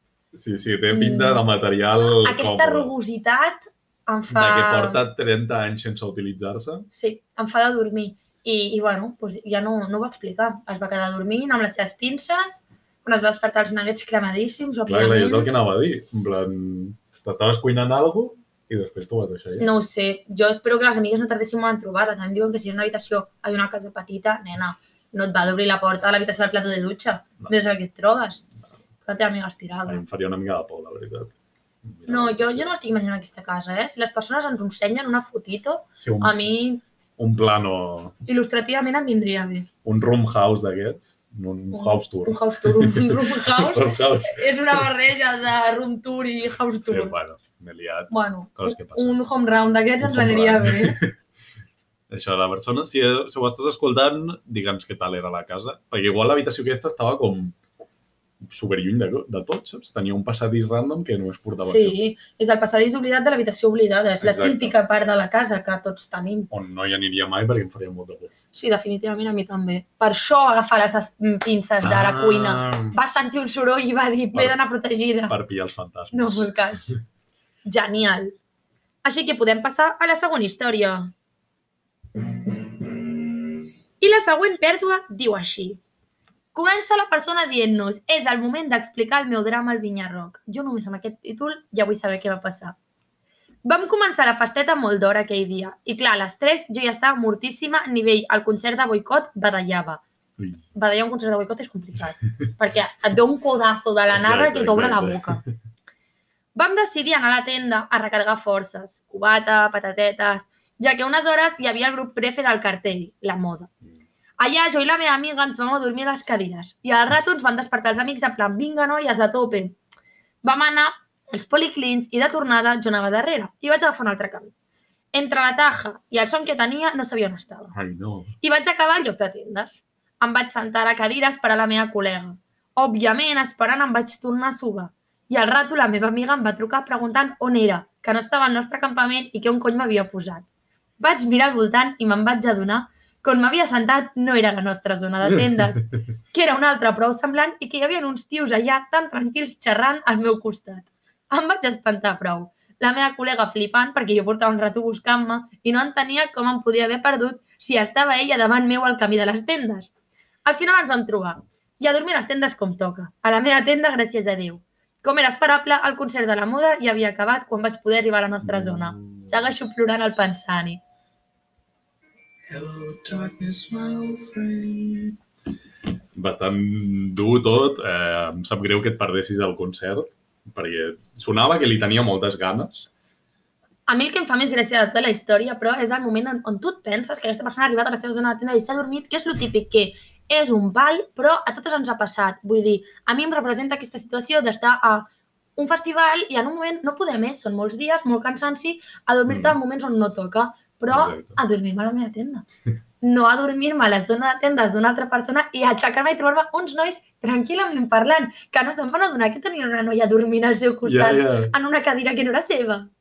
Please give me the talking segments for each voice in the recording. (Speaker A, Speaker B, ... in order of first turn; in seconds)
Speaker A: 0.3-2.9, 4.3-6.9, 14.9-19.7, 29.9-31.3, 31.8-32.7, 36.0-36.4, 37.2-38.2, 39.8-44.8, 46.8-49.2, 50.0-51.1, 52.1-57.5, 58.4-62.0, 64.2-64.8, 66.5-68.3, 71.8-73.0, 75.3-77.0, 100.4-100.6, 104.1-105.5, 127.7-128.3, 168.4-169.3, 176.1-182.9, 199.3-199.6, 200.9-201.4, 210.8-211.5
Speaker B: 0.9-1.4, 2.1-5.0, 6.9-15.5, 19.6-28.4, 29.1-30.0, 32.1-36.8, 38.2-39.7, 41.7-47.1, 48.1-51.0, 61.6-66.5, 68.5-75.3, 76.1-76.9, 77.7-78.3, 79.0-81.1, 84.0-85.8, 86.5-92.8, 93.6-100.0, 100.7-105.4, 106.5-113.7, 114.4-119.8, 120.4-124.5, 125.1-127.7, 128.4-140.4, 141.0-159.9, 160.4-170.8, 183.9-202.4, 203.0-212.9
Speaker C: 172.5-175.1